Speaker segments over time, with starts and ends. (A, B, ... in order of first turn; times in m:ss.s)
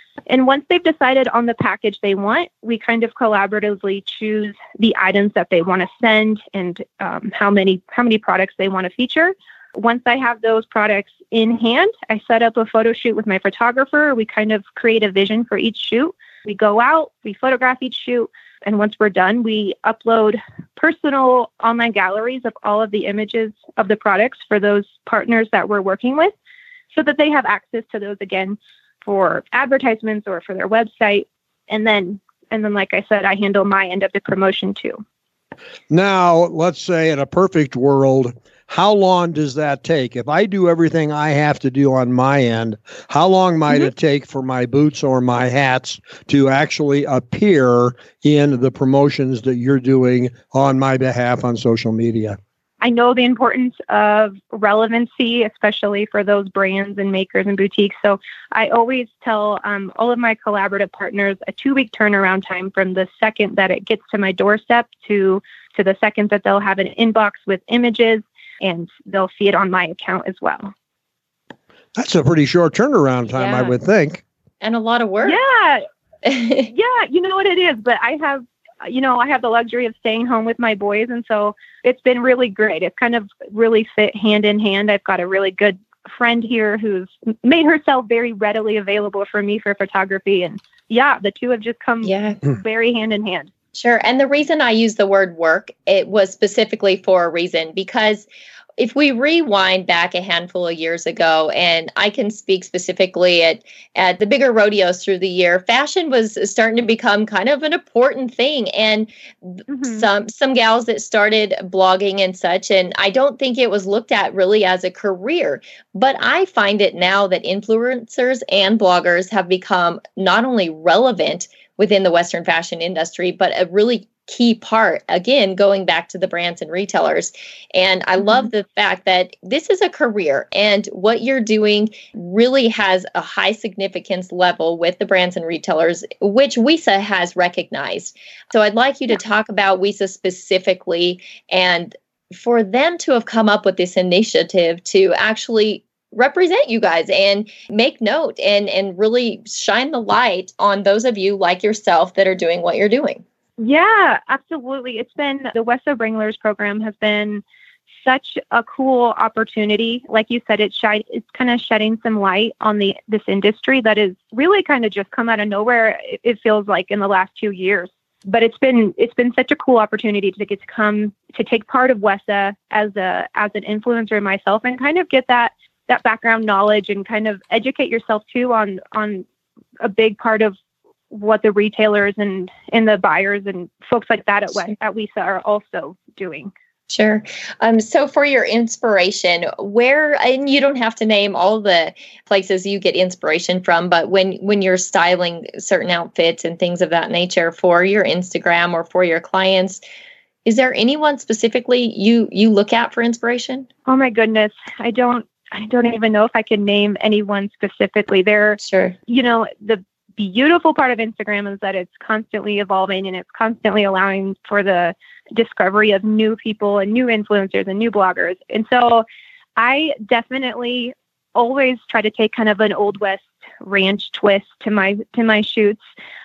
0:00.3-0:26.3 A
0:26.9-0:35.0 A
0:35.9-0:52.4 B
0:52.8-1:10.7 A
1:12.0-1:14.2 B
1:13.3-1:13.8 C
1:14.6-1:15.4 C
1:15.2-1:15.8 A
1:16.2-1:16.7 C
1:16.7-1:33.5 A
1:32.0-1:32.4 C
1:33.7-2:33.2 C
1:49.7-1:50.1 A
2:33.6-2:37.4 A
2:38.0-2:59.2 A
2:59.8-3:00.6 A
3:01.1-3:06.5 A
3:06.9-3:19.8 C
3:20.5-3:23.7 C
3:23.9-3:39.0 A
3:28.6-3:29.0 C
3:39.6-3:45.8 A